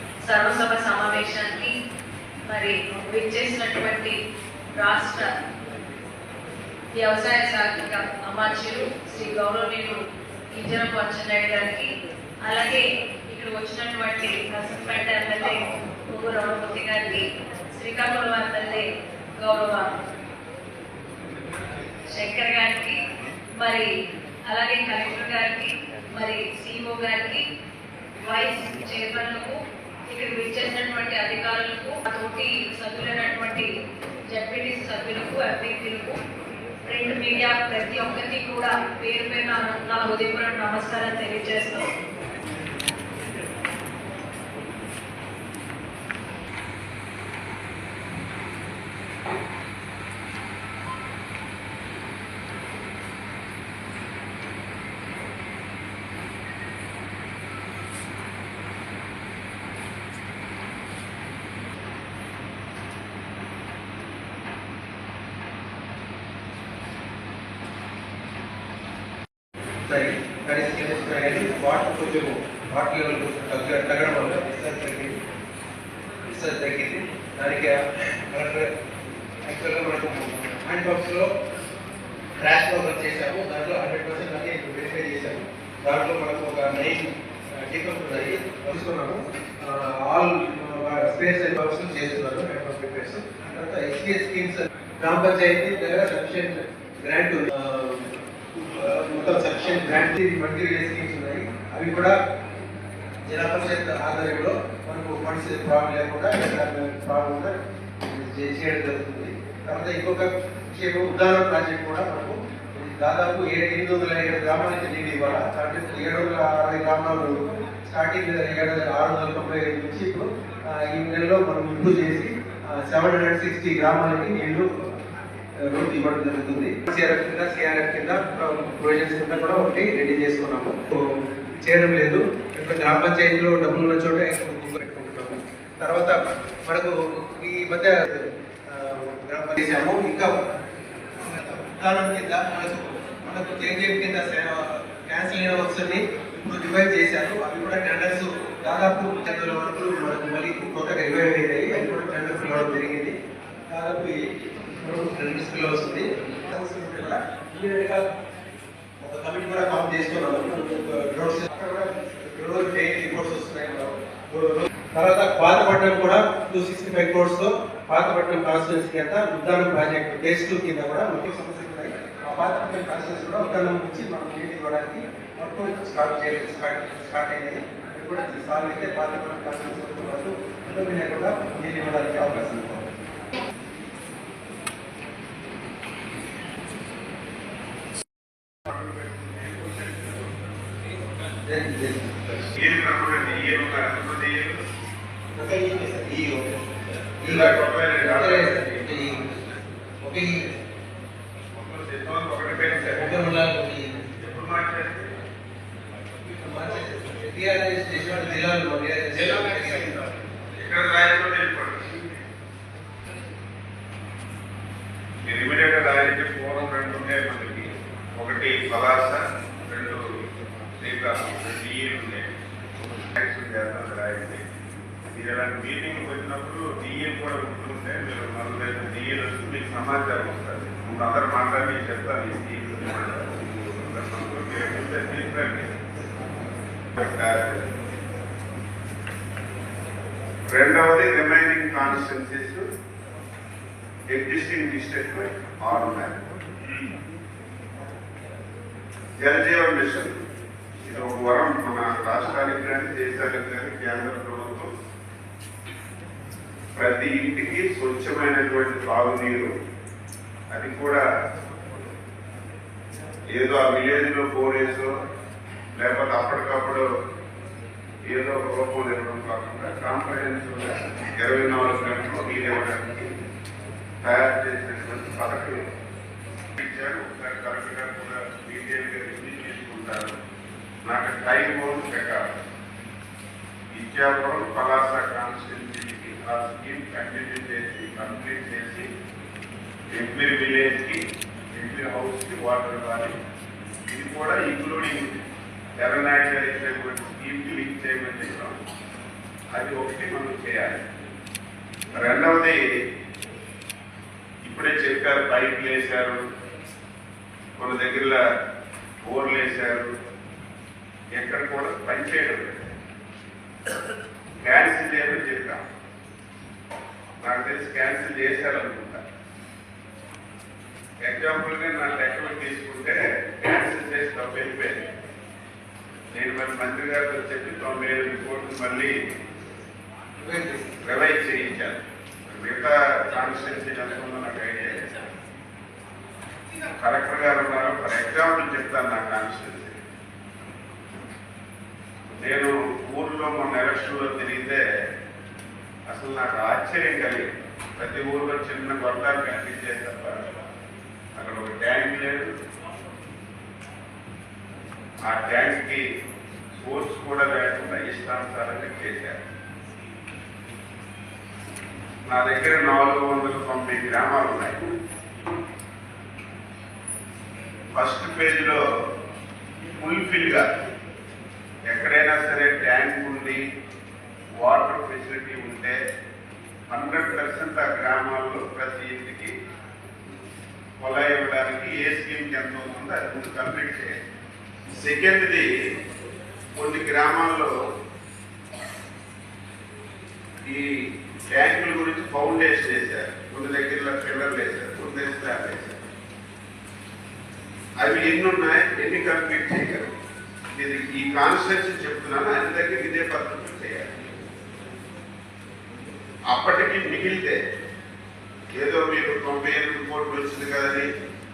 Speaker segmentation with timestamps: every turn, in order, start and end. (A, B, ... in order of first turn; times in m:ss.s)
0:00.2-0:01.7 A
0:02.5-0:04.2 A
0:04.8-0:05.3 A
0:06.9-0:10.0 A
0:10.5-0:11.9 A
0:12.5-0:17.2 A
0:17.7-0:18.9 A
0:19.4-0:19.9 A
0:22.1-0:23.0 A
0:23.6-0:23.9 A
0:24.5-0:27.4 A
0:28.2-0:29.6 A
0:30.1-0:33.7 A
0:34.3-0:36.2 A
0:36.9-0:41.9 A
1:09.9-1:15.2 B
1:16.3-1:18.7 B
1:19.5-1:21.3 B
1:22.4-1:27.1 B
1:27.6-1:42.1 B
1:43.3-2:04.7 B
2:05.7-2:11.0 B
2:11.6-2:20.4 B
2:21.2-2:33.2 B
2:33.7-2:38.1 B
2:39.0-3:02.9 B
3:08.7-3:10.3 C
3:11.5-3:12.5 B
3:12.6-3:14.6 C
3:15.4-3:16.6 B
3:17.2-3:18.9 C
3:17.2-3:19.4 B
3:20.0-3:20.4 B
3:21.5-3:23.3 C
3:22.7-3:24.1 B
3:24.2-3:25.1 C
3:26.4-3:30.0 B
3:29.2-3:32.0 C
3:35.3-3:40.0 C
3:40.8-3:42.3 C
3:43.1-3:44.4 C
3:45.1-3:55.8 C
3:57.0-3:57.7 C
4:00.5-4:02.6 C
4:04.1-4:06.2 C
4:09.2-4:10.2 C
4:10.8-4:14.7 C
4:16.8-4:19.5 C
4:20.5-4:21.0 C
4:23.3-4:24.9 C
4:25.8-4:26.9 C
4:28.1-4:33.1 C
4:34.0-4:35.6 C
4:36.6-4:40.2 C
4:40.9-4:42.4 C
4:43.7-4:48.9 C
4:50.0-4:51.0 C
4:51.5-4:53.1 C
4:53.9-4:55.1 C
4:55.8-4:58.6 C
4:59.5-5:00.8 C
5:01.9-5:02.6 C
5:04.4-5:06.2 C
5:07.6-5:08.2 C
5:09.0-5:09.9 C
5:11.2-5:12.7 C
5:14.4-5:15.6 C
5:17.2-5:19.0 C
5:21.0-5:24.8 C
5:26.1-5:28.9 C
5:30.2-5:30.7 B
5:30.9-5:34.8 C
5:36.8-5:39.8 C
5:42.2-5:44.6 C
5:45.9-5:50.2 C
5:51.2-5:52.3 C
5:55.1-5:55.8 C
5:56.6-5:59.2 C
6:02.1-6:04.7 C
6:07.7-6:08.6 C
6:09.8-6:10.5 C
6:11.7-6:13.4 C
6:14.4-6:15.8 C
6:16.7-6:19.3 C
6:20.8-6:24.0 C
6:24.8-6:25.5 C
6:26.6-6:27.5 C
6:30.5-6:35.9 C
6:37.8-6:39.9 C
6:40.6-6:43.9 C
6:46.3-6:47.4 C
6:48.6-6:50.9 C